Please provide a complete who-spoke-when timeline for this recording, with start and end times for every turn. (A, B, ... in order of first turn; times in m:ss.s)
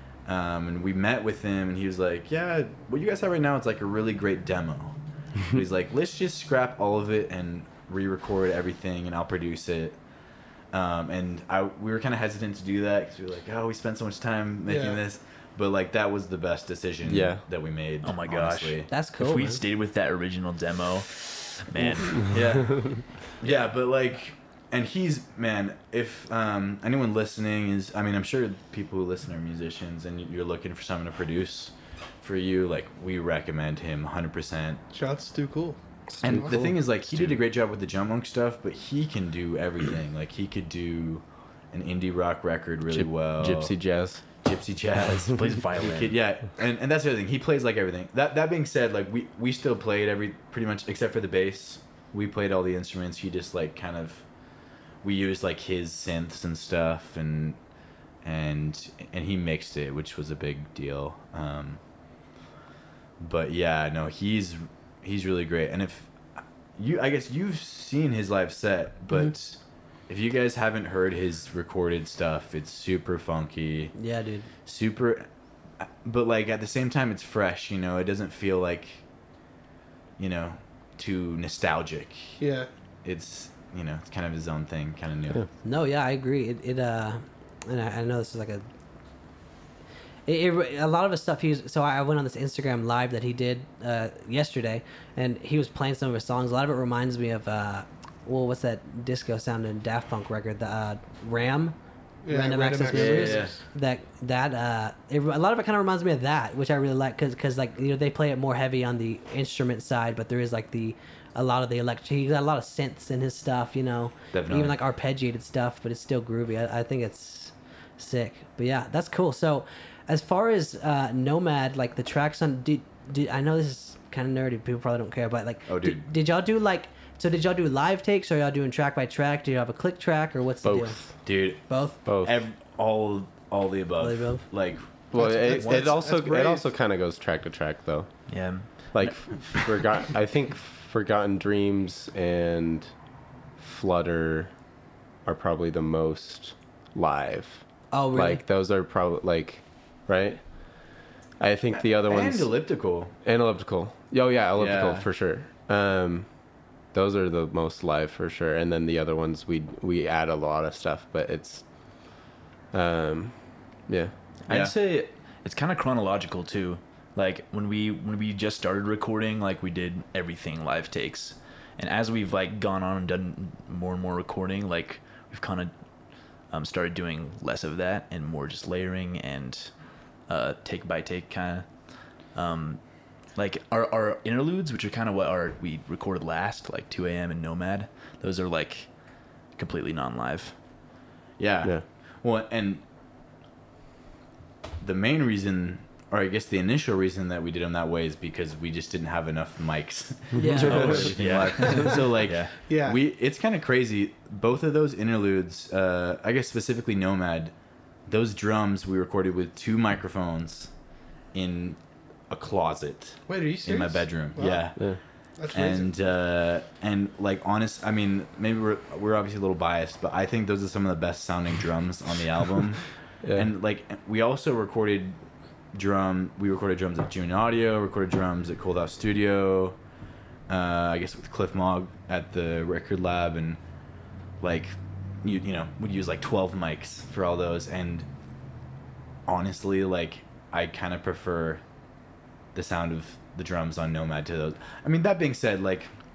0:00.2-0:05.0 A
0:05.5-0:10.0 A
0:10.7-0:18.9 A
0:14.6-0:15.0 B
0:17.0-0:17.4 C
0:18.0-0:22.4 D
0:18.9-0:19.6 E
0:22.3-0:34.8 A
0:34.9-0:36.6 B
0:36.1-0:36.7 C
0:36.2-0:43.7 A
0:37.0-0:37.4 D
0:42.9-0:44.2 C
0:44.4-0:54.2 A
0:45.3-0:46.2 D
0:55.0-0:57.6 A
0:58.2-1:01.8 A
1:03.2-1:13.9 A
1:14.0-1:14.5 E
1:14.6-1:15.3 A
1:15.8-1:19.0 A
1:20.2-1:22.4 A
1:22.4-1:22.7 B
1:23.0-1:25.4 A
1:25.6-1:28.7 E
1:30.2-1:41.8 E
1:42.2-1:43.6 B
1:42.3-2:12.0 E
1:42.9-1:43.6 A
1:54.3-1:54.8 A
2:05.7-2:06.0 A
2:10.6-2:11.2 C
2:11.2-2:14.9 A
2:12.0-2:12.3 C
2:14.0-2:14.4 E
2:15.1-2:18.1 C
2:15.1-2:16.7 B
2:18.3-2:19.6 D
2:18.9-2:22.9 C
2:23.6-2:24.5 C
2:25.2-2:32.6 C
2:27.9-2:28.4 E
2:31.7-2:33.1 A
2:33.2-2:36.3 C
2:34.6-2:35.1 A
2:36.9-2:41.6 C
2:42.7-2:44.1 C
2:44.4-3:10.5 D
2:44.5-2:44.7 A
3:11.4-3:12.8 A
3:14.8-3:27.5 A
3:20.3-3:21.0 E
3:20.5-3:21.1 C
3:20.6-3:22.5 D
3:22.6-3:23.0 B
3:28.0-3:30.7 A
3:31.3-3:31.8 A
3:32.3-3:34.9 A
3:33.3-3:34.7 B
3:35.4-3:35.9 B
3:35.5-3:45.2 A
3:43.2-3:43.5 C
3:45.7-3:49.8 A
3:50.5-3:53.6 A
3:54.4-3:58.1 A
3:59.2-4:01.6 A
4:02.5-4:05.9 A